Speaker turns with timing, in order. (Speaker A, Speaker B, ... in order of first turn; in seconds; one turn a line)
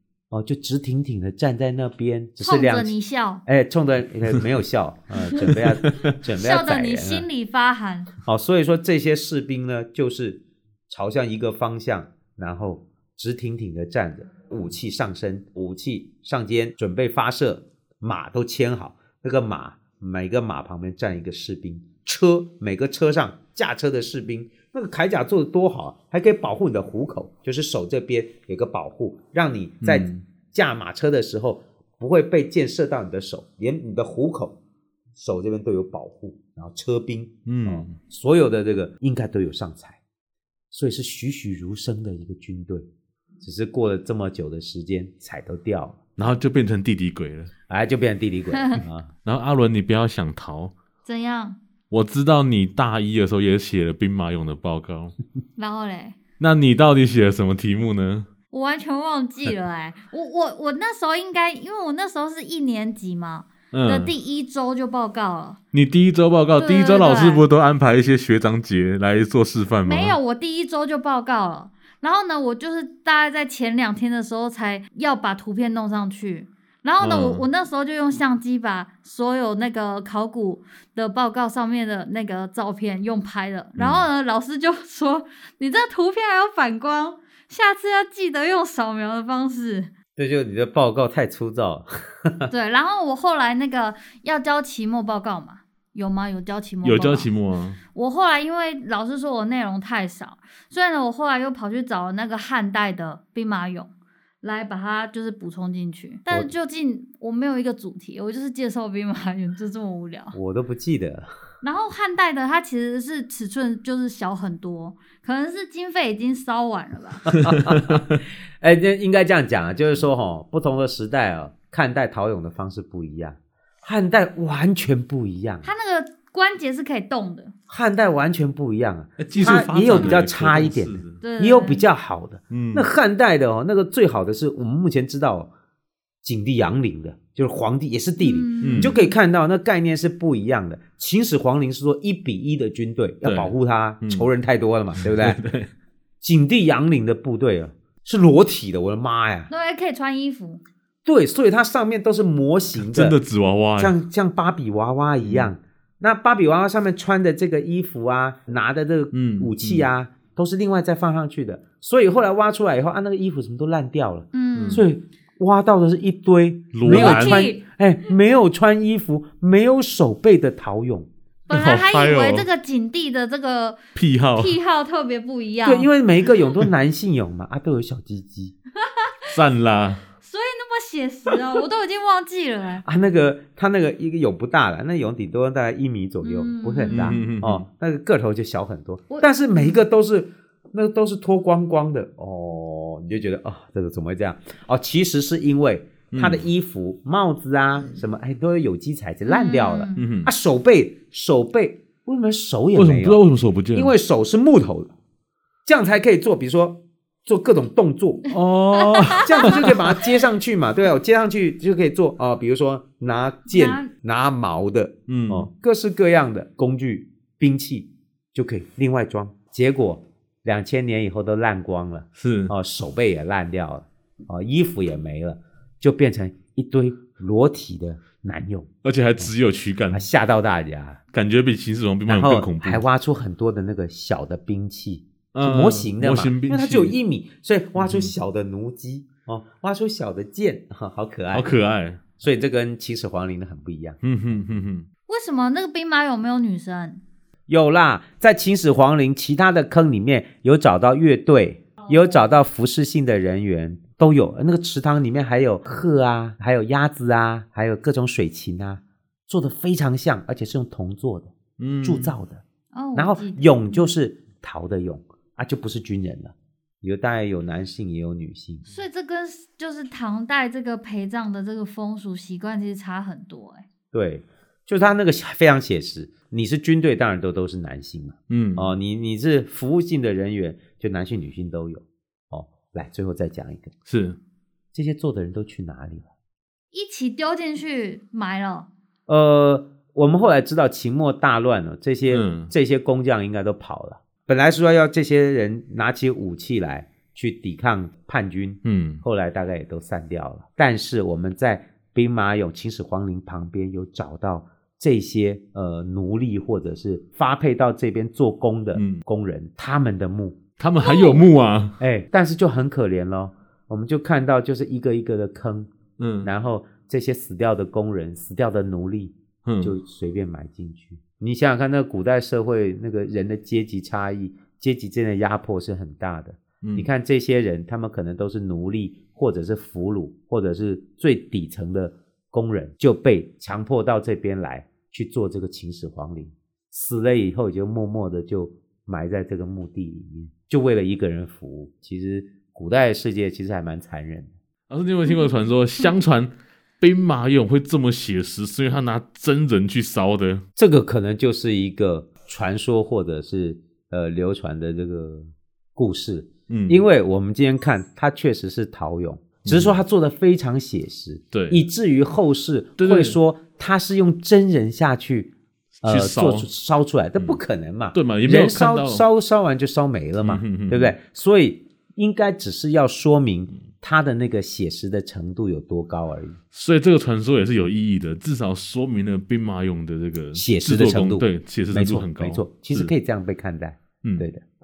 Speaker A: 0.3-2.9
Speaker B: 2.4-3.4
Speaker A: 3.5-7.2
Speaker C: 5.9-6.1
Speaker B: 6.4-8.1
Speaker A: 8.2-34.6
Speaker C: 29.8-30.2
Speaker A: 35.1-40.0
Speaker C: 37.5-38.0
Speaker A: 40.7-42.9
Speaker A: 43.4-46.0
Speaker C: 46.2-47.5
Speaker A: 47.7-49.1
Speaker B: 48.5-48.8
Speaker C: 49.2-50.7
Speaker B: 51.0-51.6
Speaker C: 51.9-55.1
Speaker B: 55.6-56.2
Speaker C: 56.4-58.3
Speaker B: 58.5-65.6
Speaker C: 63.7-64.1
Speaker C: 65.7-70.2
Speaker B: 66.6-67.4
Speaker B: 69.8-89.9
Speaker C: 77.0-77.4
Speaker C: 83.8-84.0
Speaker A: 90.2-92.5
Speaker B: 92.5-97.3
Speaker C: 96.8-97.8
Speaker B: 97.9-103.9
Speaker B: 104.4-110.3
Speaker A: 110.3-111.3
Speaker B: 111.6-117.3
Speaker A: 117.3-125.7
Speaker C: 117.5-118.0
Speaker B: 125.6-127.5
Speaker A: 127.7-135.5
Speaker C: 129.2-131.2
Speaker B: 131.2-131.8
Speaker C: 132.5-132.9
Speaker A: 136.2-145.4
Speaker B: 138.2-139.1
Speaker C: 138.6-138.9
Speaker C: 143.2-144.3
Speaker C: 144.9-145.7
Speaker A: 146.2-149.5
Speaker B: 149.5-150.6
Speaker A: 151.0-153.2
Speaker C: 152.8-153.9
Speaker A: 153.8-171.1
Speaker C: 155.2-155.5
Speaker C: 159.1-159.9
Speaker B: 164.3-164.8
Speaker C: 164.5-164.8
Speaker C: 166.7-167.5
Speaker B: 166.8-167.6
Speaker B: 171.5-173.8
Speaker C: 171.5-172.5
Speaker C: 173.9-174.6
Speaker B: 174.3-175.9
Speaker A: 175.6-178.6
Speaker B: 178.8-179.4
Speaker C: 179.3-180.0
Speaker B: 180.2-182.8
Speaker A: 182.8-203.2
Speaker B: 186.2-187.2
Speaker C: 186.9-187.6
Speaker B: 189.1-189.8
Speaker C: 196.1-196.4
Speaker B: 199.2-200.0
Speaker C: 199.9-200.3
Speaker C: 202.7-203.9
Speaker A: 203.7-204.9
Speaker A: 205.7-208.3
Speaker C: 208.3-209.9
Speaker B: 208.8-209.7
Speaker A: 209.0-229.3
Speaker B: 213.5-213.9
Speaker C: 215.1-215.5
Speaker C: 222.2-222.5
Speaker C: 228.8-230.1
Speaker A: 229.9-231.0
Speaker C: 231.1-232.8
Speaker A: 232.1-241.6
Speaker C: 235.3-237.0
Speaker C: 237.8-238.1
Speaker C: 241.3-242.2
Speaker A: 242.2-244.0
Speaker C: 244.0-244.9
Speaker B: 245.1-247.0
Speaker A: 247.5-262.4
Speaker C: 261.6-262.1
Speaker B: 262.7-263.9
Speaker A: 262.9-268.6
Speaker B: 268.7-273.6
Speaker A: 273.9-283.7
Speaker C: 278.3-278.7
Speaker C: 283.9-284.2
Speaker A: 284.7-286.1
Speaker B: 286.7-288.7
Speaker A: 289.1-310.4
Speaker C: 292.1-292.5
Speaker C: 298.6-299.0
Speaker C: 308.7-309.0
Speaker C: 310.6-311.8
Speaker B: 310.8-311.2
Speaker A: 311.8-315.7
Speaker C: 316.0-316.3
Speaker A: 316.2-344.3
Speaker C: 319.4-319.7
Speaker C: 326.6-326.9
Speaker C: 344.7-350.4
Speaker A: 350.6-365.3
Speaker C: 356.5-356.8
Speaker C: 359.4-359.8
Speaker C: 361.3-361.6
Speaker C: 362.8-363.2
Speaker C: 365.8-366.5
Speaker A: 365.8-376.4
Speaker C: 367.9-369.0
Speaker C: 370.2-370.9
Speaker C: 376.5-382.9
Speaker A: 380.3-384.4